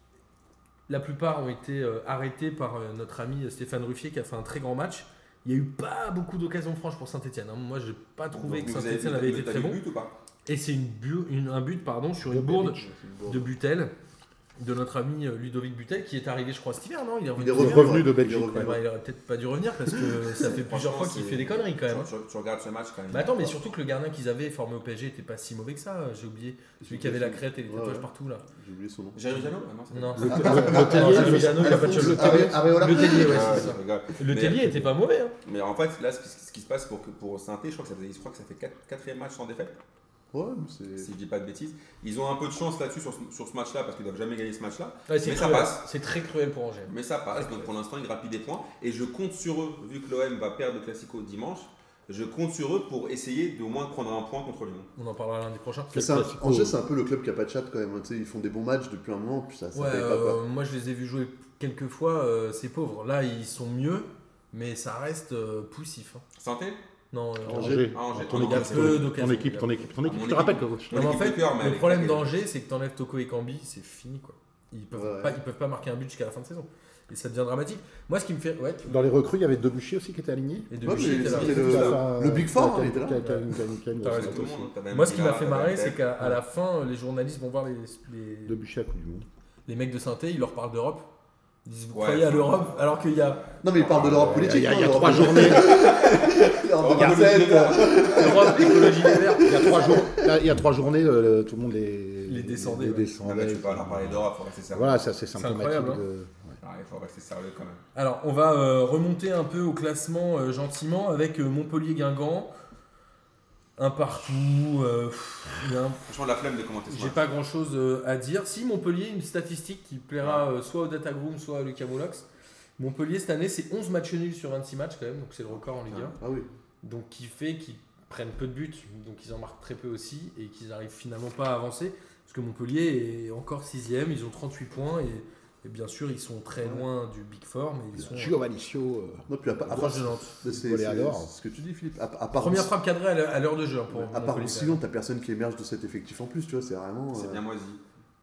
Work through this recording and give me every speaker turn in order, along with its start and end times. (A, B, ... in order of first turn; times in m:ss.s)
0:00.9-0:09.8 A
0:08.5-0:10.1 B
0:10.5-0:13.9 A
0:12.3-0:12.8 C
0:12.8-0:13.5 D
0:14.6-0:22.1 A
0:17.4-0:18.8 D
0:17.5-0:18.8 C
0:20.4-0:23.5 B
0:23.1-0:28.4 A
0:26.8-0:29.4 D
0:29.1-0:31.4 B
0:29.9-0:35.3 A
0:30.2-0:32.6 C
0:30.3-0:33.8 D
0:33.0-0:34.6 B
0:35.4-0:39.8 B
0:40.3-0:41.1 D
0:41.0-0:45.8 B
0:45.1-0:46.9 A
0:46.9-0:54.9 B
0:55.0-0:56.1 A
0:55.9-0:56.8 C
0:55.9-1:00.4 D
0:59.7-1:06.2 A
1:06.4-1:06.8 B
1:07.1-1:09.7 A
1:07.5-1:08.0 D
1:07.5-1:11.0 C
1:07.9-1:09.1 B
1:10.0-1:12.3 B
1:10.9-1:18.9 A
1:14.9-1:15.4 D
1:18.8-1:24.7 C
1:20.7-1:22.0 A
1:20.8-1:23.4 D
1:20.9-1:22.0 B
1:23.2-1:23.4 A
1:24.0-1:28.6 A
1:24.0-1:26.0 B
1:28.4-1:29.2 C
1:29.7-1:31.0 A
1:31.6-1:33.4 A
1:31.9-1:38.8 B
1:33.6-1:40.3 D
1:34.0-1:35.9 C
1:38.0-1:39.8 A
1:39.4-1:46.5 C
1:42.2-1:43.2 A
1:43.2-1:45.0 B
1:45.4-1:46.0 A
1:46.6-1:47.8 B
1:47.9-1:52.5 A
1:53.8-1:56.0 A
1:56.0-1:57.2 B
1:56.9-2:02.2 A
2:00.2-2:00.5 B
2:02.8-2:06.2 A
2:05.8-2:06.1 B
2:06.2-2:06.5 D
2:06.8-2:18.4 A
2:18.0-2:19.2 C
2:19.3-2:22.7 D
2:19.6-2:20.4 A
2:20.4-2:21.3 C
2:22.4-2:24.8 A
2:23.9-2:27.4 D
2:27.1-2:27.8 B